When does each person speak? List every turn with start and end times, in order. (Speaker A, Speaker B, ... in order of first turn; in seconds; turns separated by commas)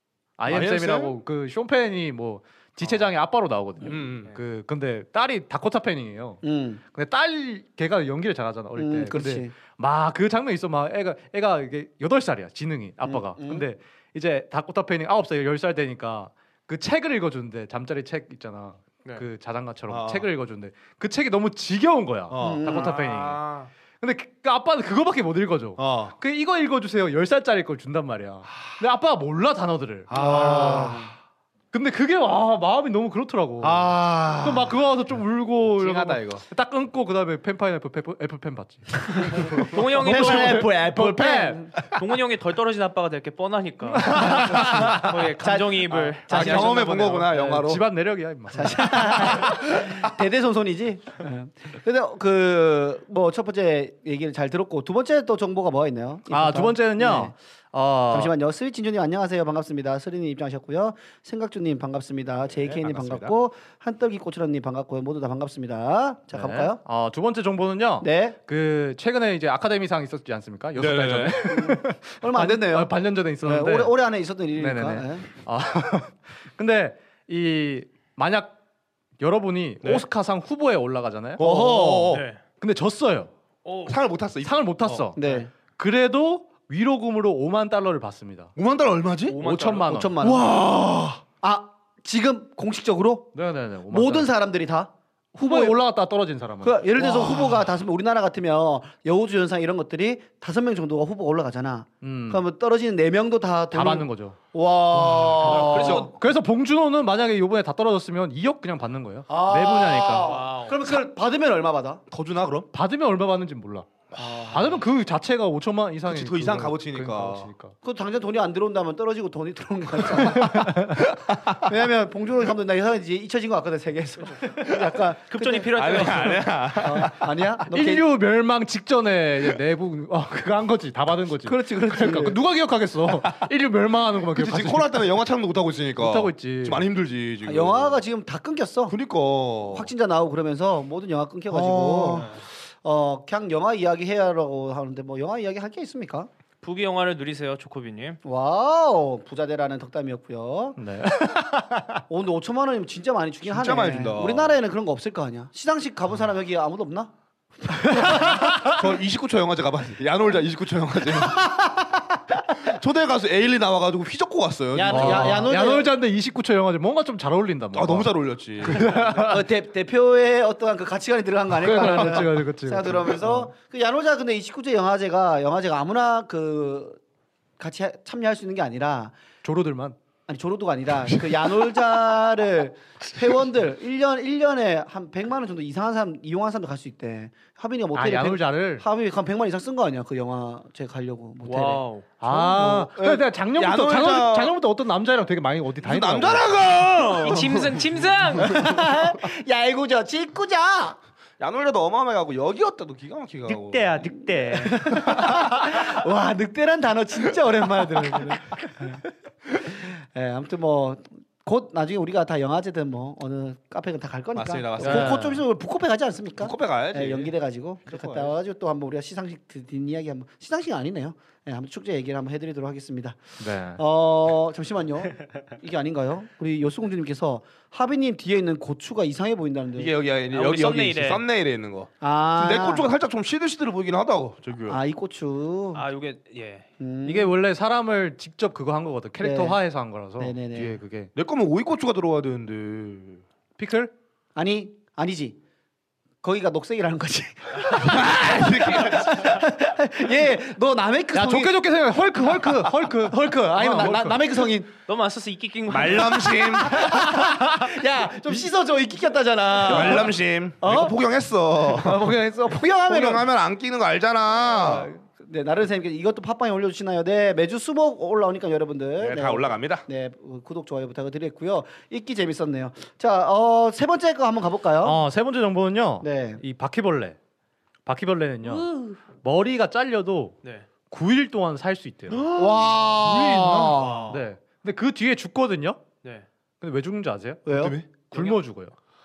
Speaker A: 0.4-6.4, Speaker B: 0.5-1.2, Speaker B: 3.8-4.3, Speaker C: 6.4-6.8, Speaker A: 6.9-23.5, Speaker C: 8.8-9.5, Speaker C: 13.0-13.7, Speaker B: 19.9-20.3, Speaker B: 22.3-22.7, Speaker C: 22.4-23.0, Speaker D: 22.7-23.7, Speaker A: 24.0-31.0, Speaker B: 25.8-26.1, Speaker B: 30.1-31.0, Speaker C: 30.1-31.1, Speaker A: 31.7-41.7, Speaker B: 33.6-34.8, Speaker B: 35.7-36.4, Speaker D: 39.5-40.7, Speaker C: 40.0-41.8, Speaker D: 41.8-47.3, Speaker A: 44.0-45.1, Speaker C: 44.5-44.9, Speaker C: 45.4-47.1, Speaker B: 46.3-47.9, Speaker A: 47.3-49.6, Speaker C: 48.5-57.3, Speaker A: 56.3-58.3, Speaker C: 58.1-66.8, Speaker B: 62.5-63.4, Speaker A: 66.3-74.0, Speaker C: 68.0-68.4, Speaker B: 70.8-71.6, Speaker C: 71.5-75.3, Speaker A: 74.6-78.6, Speaker A: 79.2-81.4, Speaker B: 79.8-80.1, Speaker B: 81.4-82.2, Speaker C: 81.4-82.2, Speaker D: 82.1-82.4, Speaker A: 82.6-83.3, Speaker D: 83.7-84.0, Speaker B: 83.9-85.1, Speaker A: 84.4-88.5, Speaker C: 85.2-85.5, Speaker B: 88.6-89.4, Speaker D: 89.3-89.9, Speaker A: 89.3-90.2, Speaker C: 89.8-90.5, Speaker B: 90.2-91.2, Speaker C: 91.4-93.3, Speaker A: 93.3-94.3, Speaker C: 93.9-95.8, Speaker A: 95.3-97.5, Speaker C: 96.6-106.1, Speaker A: 102.0-102.4, Speaker A: 103.7-104.4, Speaker B: 104.9-106.2, Speaker A: 105.4-110.3, Speaker D: 105.5-106.0, Speaker C: 109.3-112.0, Speaker D: 110.2-110.8, Speaker B: 112.1-112.7, Speaker A: 112.7-113.9, Speaker C: 114.2-114.8, Speaker A: 114.5-117.8, Speaker B: 116.1-117.5, Speaker C: 117.8-128.1, Speaker B: 120.2-121.7, Speaker A: 120.3-121.0, Speaker D: 125.3-126.6, Speaker B: 125.7-127.3, Speaker A: 127.7-135.1, Speaker C: 131.4-132.4, Speaker B: 133.1-133.5, Speaker B: 134.3-138.0, Speaker A: 136.0-136.8, Speaker C: 137.4-139.0, Speaker B: 138.9-139.9, Speaker C: 139.7-146.3, Speaker B: 141.5-142.4, Speaker D: 142.1-142.4, Speaker D: 146.6-148.2, Speaker C: 148.2-150.8, Speaker A: 150.8-152.0, Speaker C: 152.1-157.1, Speaker B: 153.4-154.6, Speaker C: 157.6-158.5, Speaker A: 158.0-158.8, Speaker B: 158.2-161.7, Speaker C: 161.2-161.9, Speaker B: 162.6-165.5, Speaker C: 164.7-165.9, Speaker A: 164.9-169.4, Speaker B: 167.7-169.1, Speaker C: 169.1-177.0, Speaker A: 171.5-173.5, Speaker C: 177.6-179.1, Speaker A: 179.4-180.0, Speaker C: 180.3-192.9, Speaker A: 187.9-188.8, Speaker D: 191.5-192.1, Speaker A: 192.2-196.5, Speaker B: 192.9-194.6, Speaker B: 195.8-198.9, Speaker D: 196.6-198.8, Speaker C: 198.4-201.0, Speaker B: 201.4-204.1, Speaker D: 203.5-204.8, Speaker C: 204.3-223.2, Speaker B: 214.3-215.4, Speaker A: 214.8-215.4, Speaker B: 216.4-217.3, Speaker B: 217.9-218.3, Speaker A: 223.4-223.8, Speaker C: 223.8-229.9, Speaker B: 229.8-234.8, Speaker D: 230.3-231.2, Speaker C: 232.0-232.9, Speaker C: 234.7-235.8, Speaker D: 235.8-236.7, Speaker C: 236.8-237.3, Speaker A: 237.1-241.1, Speaker C: 239.2-239.6, Speaker C: 240.2-240.8, Speaker B: 241.2-243.2, Speaker A: 243.6-243.9, Speaker C: 244.4-245.4, Speaker C: 246.2-251.6, Speaker B: 247.7-249.4, Speaker A: 251.1-254.2, Speaker C: 252.2-254.7, Speaker D: 254.9-256.6, Speaker B: 255.7-257.1, Speaker C: 256.6-261.0, Speaker A: 256.9-257.7, Speaker B: 259.6-262.1, Speaker C: 261.6-263.3, Speaker B: 262.8-264.9, Speaker C: 264.4-275.0, Speaker B: 269.0-269.9, Speaker A: 274.8-277.2, Speaker C: 276.0-276.4, Speaker A: 277.9-282.4, Speaker D: 278.5-278.9, Speaker D: 280.4-280.7, Speaker C: 282.3-284.1, Speaker B: 282.6-283.9, Speaker A: 283.0-285.8, Speaker D: 283.8-284.2, Speaker A: 286.6-287.5, Speaker C: 287.5-287.8, Speaker B: 287.5-287.9, Speaker A: 288.0-288.7, Speaker D: 288.1-288.4